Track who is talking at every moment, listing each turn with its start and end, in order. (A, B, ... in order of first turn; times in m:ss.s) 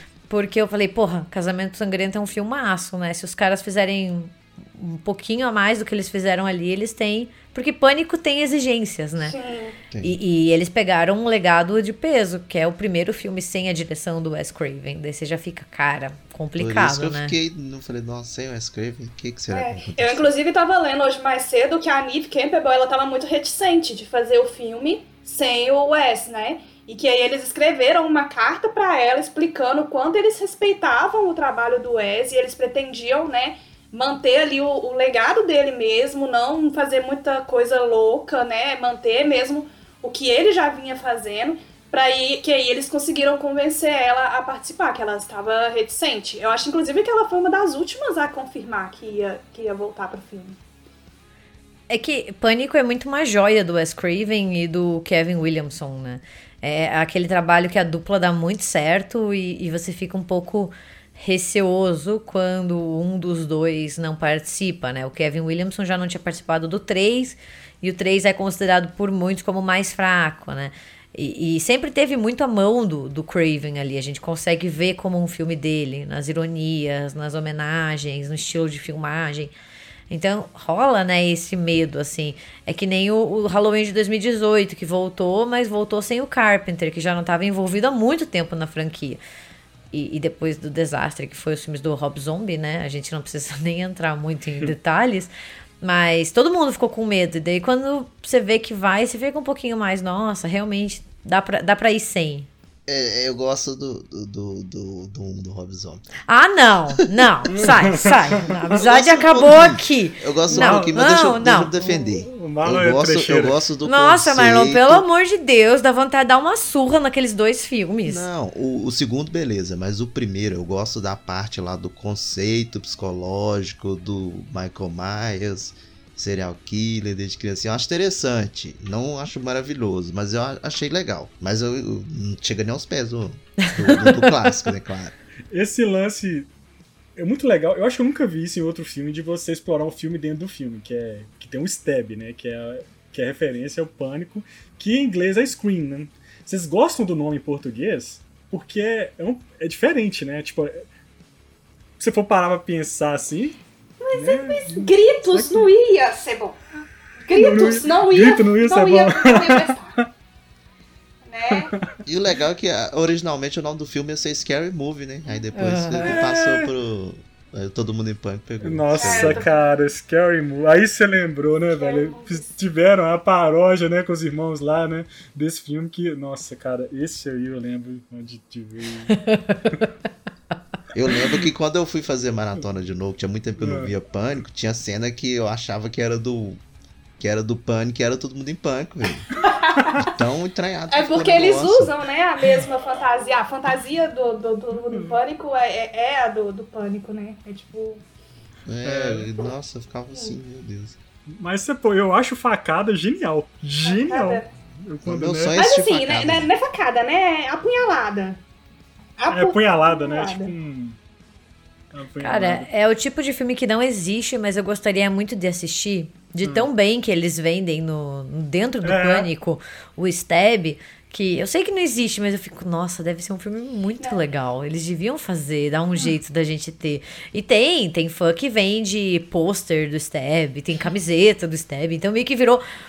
0:00.3-0:09.4 A
0:09.2-0:09.8 B
0:09.9-0:10.2 C
0:10.0-0:17.3 A
0:16.6-0:20.3 C
0:19.5-0:50.6 B
0:51.9-1:19.5 A
1:20.1-1:29.2 A
1:29.9-1:42.5 A
1:42.9-1:46.1 C
1:46.3-1:51.7 A
1:47.5-1:48.4 D
1:48.7-1:55.0 C
1:50.5-1:51.0 D
1:51.8-1:53.6 D
1:53.8-1:58.3 A
1:58.0-2:15.2 C
2:13.7-2:14.5 A
2:15.5-2:16.5 D
2:17.2-2:30.8 D
2:32.0-2:33.6 D
2:34.0-2:36.6 B
2:34.1-2:35.7 D
2:37.3-2:40.0 B
2:37.3-2:40.1 D
2:41.3-2:41.7 B
2:41.5-2:41.8 D
2:42.1-2:49.5 C
2:45.6-2:46.2 A
2:46.0-2:46.7 D
2:48.6-2:59.2 D
2:49.0-2:49.6 B
2:51.8-2:52.4 B
2:59.2-2:59.6 A
3:00.9-3:06.6 C
3:03.6-3:03.9 D
3:07.2-3:09.3 C
3:09.6-3:10.0 B
3:10.0-3:11.9 C
3:10.9-3:18.0 B
3:14.8-3:15.2 D
3:18.7-3:21.0 C
3:18.8-3:19.3 D
3:21.4-3:25.6 D
3:23.8-3:24.5 B
3:25.0-3:26.5 C
3:25.6-3:28.4 B
3:29.2-3:30.5 B
3:29.3-3:31.0 D
3:31.9-3:32.7 D
3:32.2-3:52.6 A
3:36.4-3:36.7 D
3:38.8-3:39.3 D